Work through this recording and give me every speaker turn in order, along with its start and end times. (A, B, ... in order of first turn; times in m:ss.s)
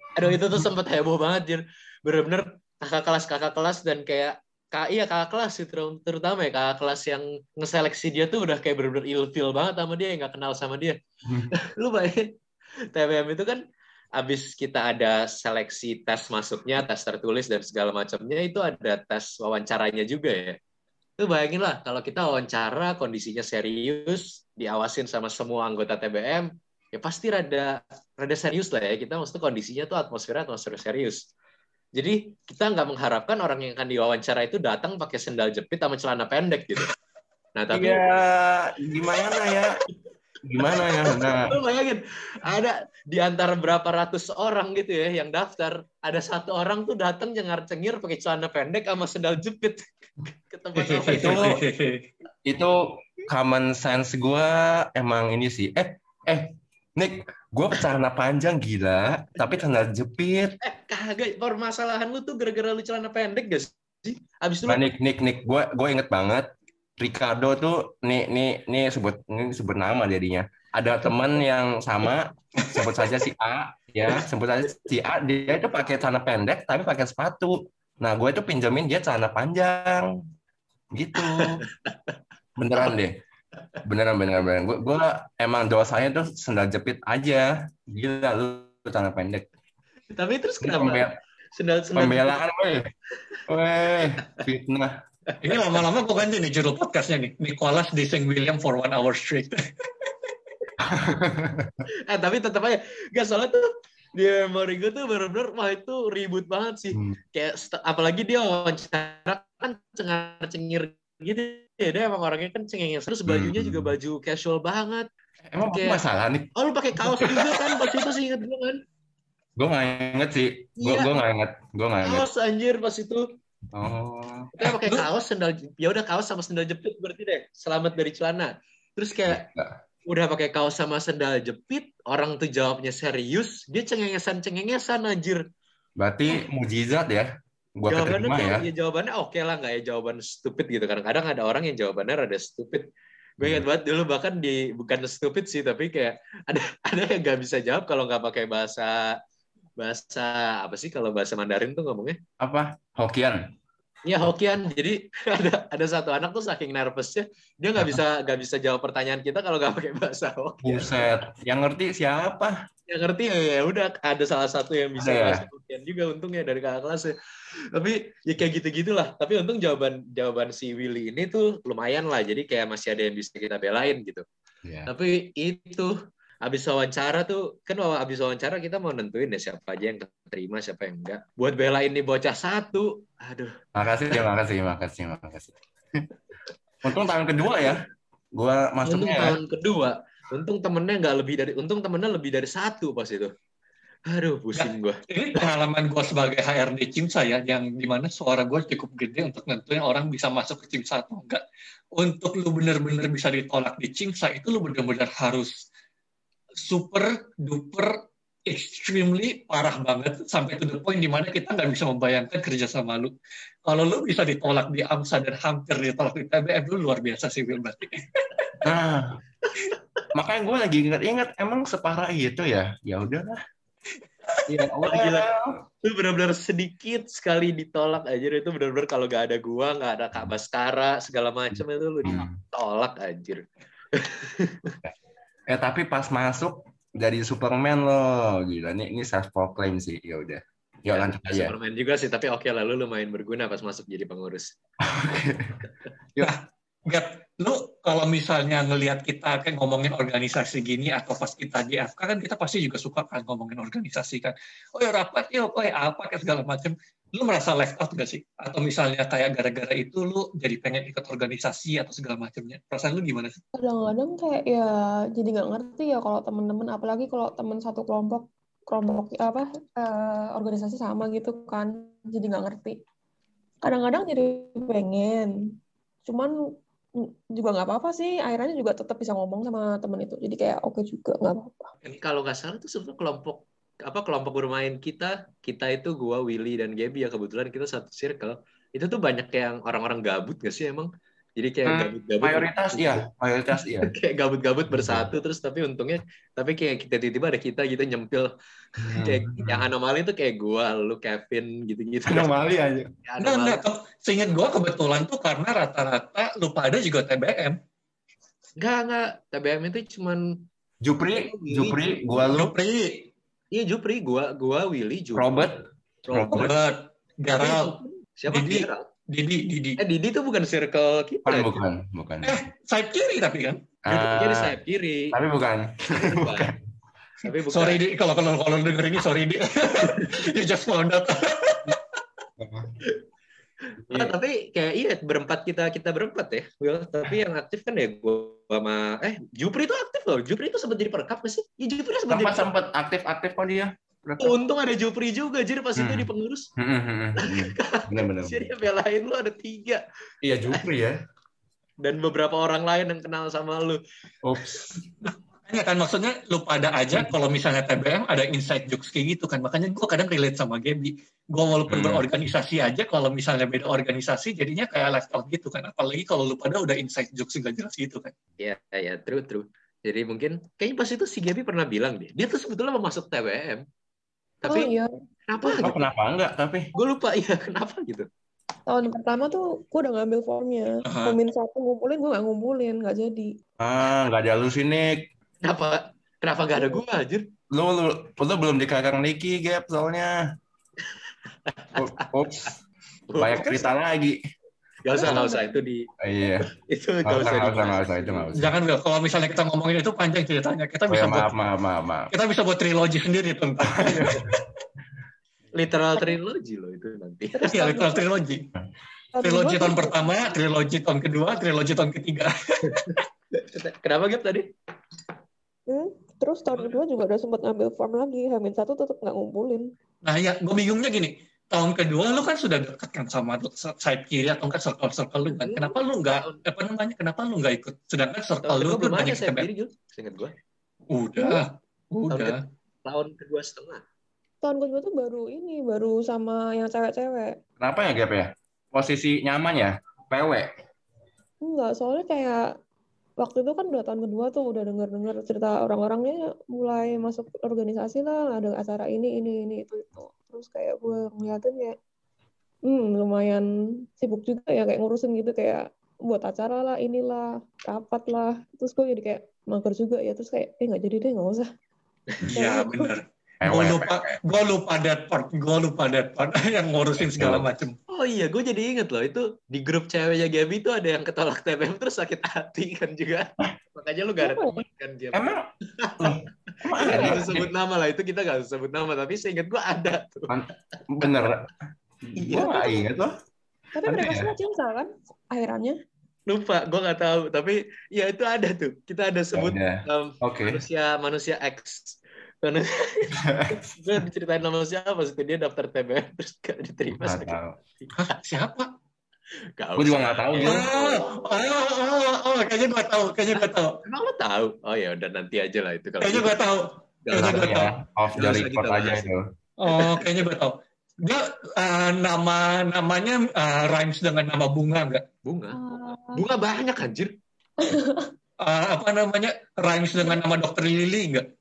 0:00.1-0:11.0 A
0:11.3-0:11.5 B
0:11.5-0:12.3 A
0:12.9-0:13.6 A
0:14.2-0:20.6 A
0:21.2-0:31.2 A
0:31.9-0:36.9 A
0:37.6-0:38.1 A
0:37.7-0:39.8 B
0:40.4-0:41.5 B
0:40.6-0:51.5 A
0:50.8-0:52.0 C
0:51.1-0:51.6 B
0:52.4-1:00.6 B
1:00.6-1:04.8 A
1:04.6-1:20.2 B
1:20.9-1:21.6 B
1:21.2-1:22.1 A
1:22.6-1:23.2 B
1:23.8-1:29.4 B
1:30.1-1:32.4 A
1:30.6-1:31.2 B
1:31.9-1:32.9 B
1:33.5-1:34.9 B
1:35.4-1:39.6 C
1:40.8-1:41.8 B
1:42.1-1:55.1 A
1:46.9-1:47.2 B
1:53.3-1:53.9 B
1:55.5-1:56.5 B
1:55.7-1:56.0 A
1:56.6-1:58.8 A
1:59.6-2:02.3 B
2:00.8-2:01.2 A
2:02.0-2:03.2 A
2:03.7-2:04.5 B
2:04.6-2:09.4 A
2:04.6-2:05.0 C
2:09.3-2:09.7 B
2:10.1-2:15.4 A
2:16.0-2:18.6 B
2:17.9-2:22.8 A
2:23.4-2:29.2 A
2:29.8-2:32.2 A
2:32.4-2:33.4 B
2:34.0-2:41.0 A
2:40.6-2:42.5 B
2:42.9-2:47.1 A
2:45.0-2:45.4 B
2:47.7-2:54.2 A
2:54.6-2:54.9 B
2:54.9-3:03.5 A
3:03.8-3:06.0 B
3:06.8-3:07.8 B
3:08.3-3:09.4 B
3:08.8-3:13.3 A
3:14.1-3:15.0 A
3:14.5-3:21.4 C
3:21.9-3:25.5 C
3:26.6-3:27.9 C
3:28.5-3:33.1 C
3:33.6-3:38.3 C
3:38.6-3:39.2 B
3:40.1-3:43.4 B
3:44.5-3:45.6 B
3:44.8-3:45.2 A
3:45.8-3:54.8 A
3:51.6-3:52.4 B
3:55.5-4:01.5 B
4:00.9-4:04.5 A
4:04.8-4:06.3 B
4:06.2-4:23.4 C
4:23.5-4:32.8 D
4:33.6-4:35.5 D
4:36.0-4:36.3 D
4:37.0-4:41.7 D
4:42.0-4:53.0 A
4:51.6-4:53.9 B
4:53.8-5:02.3 A
4:54.7-4:55.1 B
4:58.8-4:59.7 B
5:02.1-5:02.9 B
5:03.0-5:03.6 A
5:03.2-5:07.6 C
5:08.6-5:10.2 A
5:10.8-5:12.5 B
5:11.1-5:12.3 A
5:12.3-5:13.1 C
5:13.5-5:15.5 A
5:15.1-5:15.6 B
5:16.1-5:16.5 A
5:16.1-5:16.5 B
5:16.3-5:17.8 C
5:17.4-5:18.9 A
5:18.3-5:19.8 C
5:19.8-5:21.6 A
5:21.2-5:22.3 B
5:22.2-5:23.6 C
5:23.8-5:24.6 B
5:23.9-5:25.2 A
5:25.1-5:26.6 B
5:26.0-5:26.5 A
5:27.2-5:27.8 A
5:27.3-5:31.8 C
5:29.8-5:30.2 A
5:32.4-5:32.8 B
5:33.9-5:42.4 A
5:42.1-5:44.3 B
5:44.2-5:46.5 A
5:45.8-5:48.4 B
5:47.2-5:49.8 A
5:50.2-5:51.0 B
5:51.8-5:53.8 A
5:54.2-5:54.9 B
5:55.0-6:08.1 C
6:01.7-6:02.0 B
6:08.4-6:13.6 A
6:14.4-6:14.7 A
6:14.4-6:15.7 D
6:15.3-6:15.9 A
6:15.6-6:16.6 B
6:16.7-6:18.1 A
6:18.7-6:23.3 D
6:20.8-6:21.2 C
6:23.6-6:25.1 B
6:25.4-6:27.3 A
6:27.5-6:30.2 B
6:30.8-6:32.1 A
6:31.7-6:32.5 B
6:33.1-6:33.7 A
6:33.2-6:34.2 B
6:34.8-6:35.9 A
6:35.0-6:35.5 D
6:36.0-6:36.5 B
6:36.5-6:38.3 A
6:37.0-6:38.5 B
6:38.4-6:41.3 C
6:40.9-6:42.1 B
6:42.1-6:44.2 C
6:43.7-6:44.4 B
6:45.6-6:47.5 A
6:47.3-6:48.0 D
6:47.5-6:48.4 C
6:49.1-6:50.3 D
6:49.2-6:53.0 C
6:52.7-6:54.5 A
6:55.7-6:59.7 D
7:00.0-7:09.5 C
7:05.4-7:06.4 A
7:08.4-7:10.3 A
7:10.9-7:12.4 C
7:12.1-7:13.8 A
7:14.4-7:17.4 D
7:17.6-7:20.5 B
7:21.4-7:22.4 D
7:23.2-7:31.7 D
7:32.6-7:33.4 D
7:34.0-7:41.5 D
7:42.3-7:47.8 C
7:42.3-7:42.9 D
7:43.4-7:44.2 B
7:47.0-7:47.5 B
7:47.9-8:00.3 A
7:54.2-7:54.6 D
7:55.1-7:55.5 B
7:56.0-7:57.5 B
8:00.3-8:01.5 B
8:02.0-8:03.1 B
8:02.2-8:02.5 A
8:02.3-8:02.8 D
8:03.7-8:05.8 D
8:03.8-8:04.3 B
8:06.3-8:17.9 A
8:09.3-8:10.6 B
8:13.2-8:13.6 B
8:16.9-8:17.6 B
8:17.9-8:18.7 C
8:19.6-8:21.2 A
8:19.8-8:20.7 B
8:20.4-8:23.7 C
8:23.4-8:26.5 A
8:26.0-8:27.7 C
8:27.0-8:29.1 A
8:27.1-8:29.2 B
8:29.6-8:35.0 C
8:29.7-8:30.0 A
8:35.2-8:35.6 A
8:35.5-8:36.2 D
8:36.1-8:37.1 A
8:37.6-8:38.1 D
8:38.4-8:41.2 C